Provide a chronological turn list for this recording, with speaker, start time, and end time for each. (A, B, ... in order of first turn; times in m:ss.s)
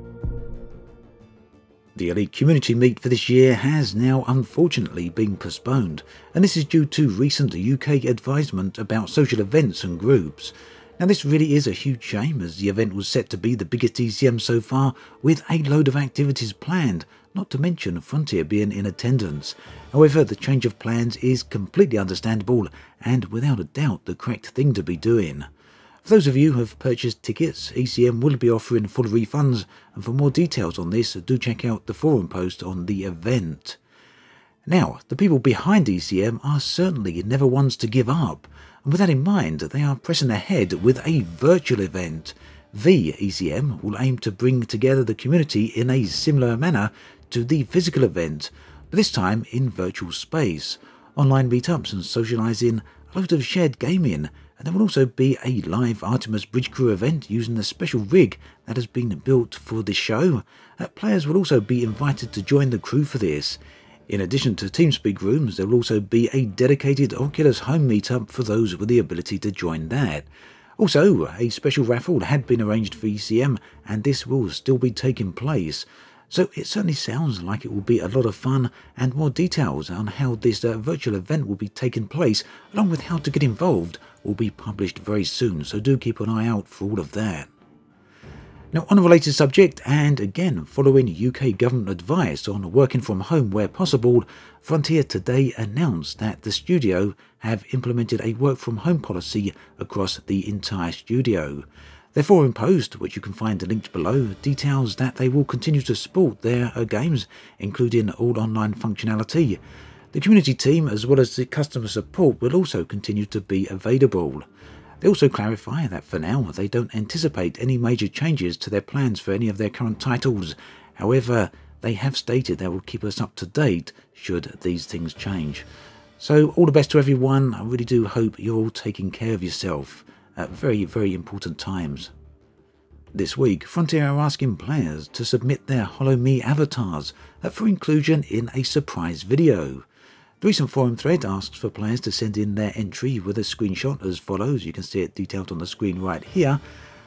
0:01.9-0:25.5 A
0:26.0-0:33.8 A
0:34.6-1:10.3 A
1:10.8-1:27.5 A
1:28.7-1:49.6 A
1:50.1-1:54.4 A
1:55.0-2:05.6 A
2:06.2-2:12.1 A
2:13.1-2:19.8 A
2:20.4-2:26.6 A